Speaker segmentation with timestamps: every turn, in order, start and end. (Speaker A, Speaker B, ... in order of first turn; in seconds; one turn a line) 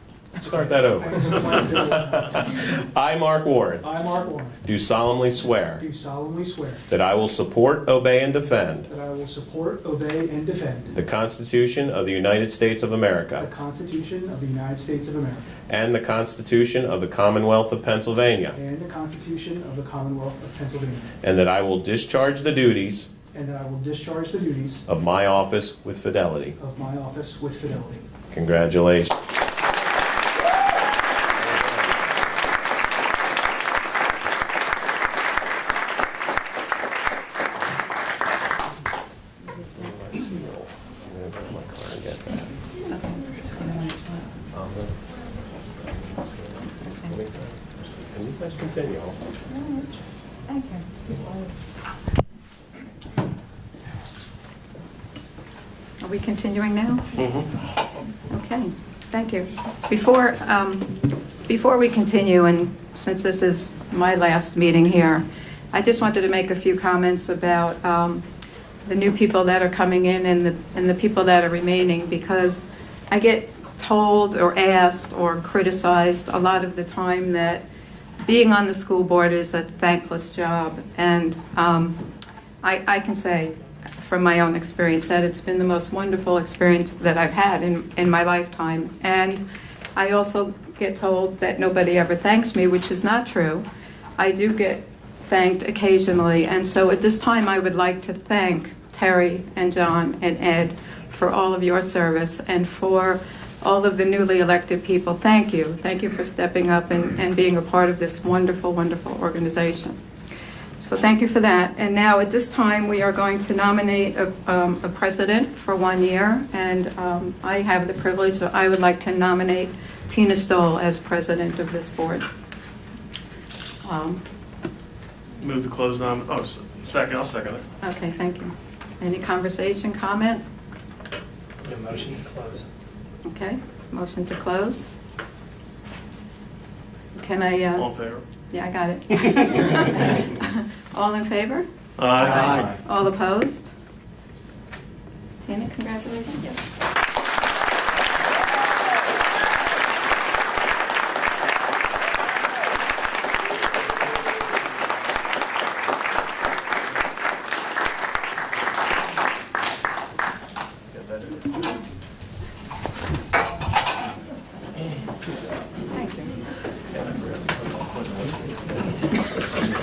Speaker A: 0.3-3.9
Speaker B: 0.9-2.7
Speaker B: 3.8-4.6
Speaker A: 4.6-5.8
Speaker B: 5.8-6.8
Speaker A: 6.9-8.9
Speaker B: 8.9-10.9
Speaker A: 10.9-13.5
Speaker B: 13.4-15.5
Speaker A: 15.7-18.6
Speaker B: 18.5-21.1
Speaker A: 21.2-23.1
Speaker B: 23.3-24.8
Speaker A: 24.9-26.6
Speaker B: 26.6-28.1
Speaker A: 28.3-29.2
Speaker A: 39.7-42.5
Speaker C: 42.9-44.2
Speaker A: 44.5-45.0
Speaker A: 45.9-49.2
Speaker C: 50.5-50.8
Speaker C: 56.0-57.0
Speaker D: 57.2-57.5
Speaker C: 58.3-60.9
Speaker C: 61.5-68.2
Speaker C: 68.8-77.6
Speaker C: 78.2-82.0
Speaker C: 82.6-89.4
Speaker C: 89.9-93.6
Speaker C: 94.2-110.0
Speaker C: 110.8-122.2
Speaker C: 123.8-124.2
Speaker D: 125.4-127.6
Speaker C: 127.8-130.4
Speaker B: 131.7-132.6
Speaker C: 133.2-134.9
Speaker C: 137.1-137.9
Speaker D: 137.8-138.2
Speaker C: 138.5-141.7
Speaker D: 142.0-142.8
Speaker C: 142.2-143.7
Speaker C: 145.4-146.6
Speaker C: 165.9-166.3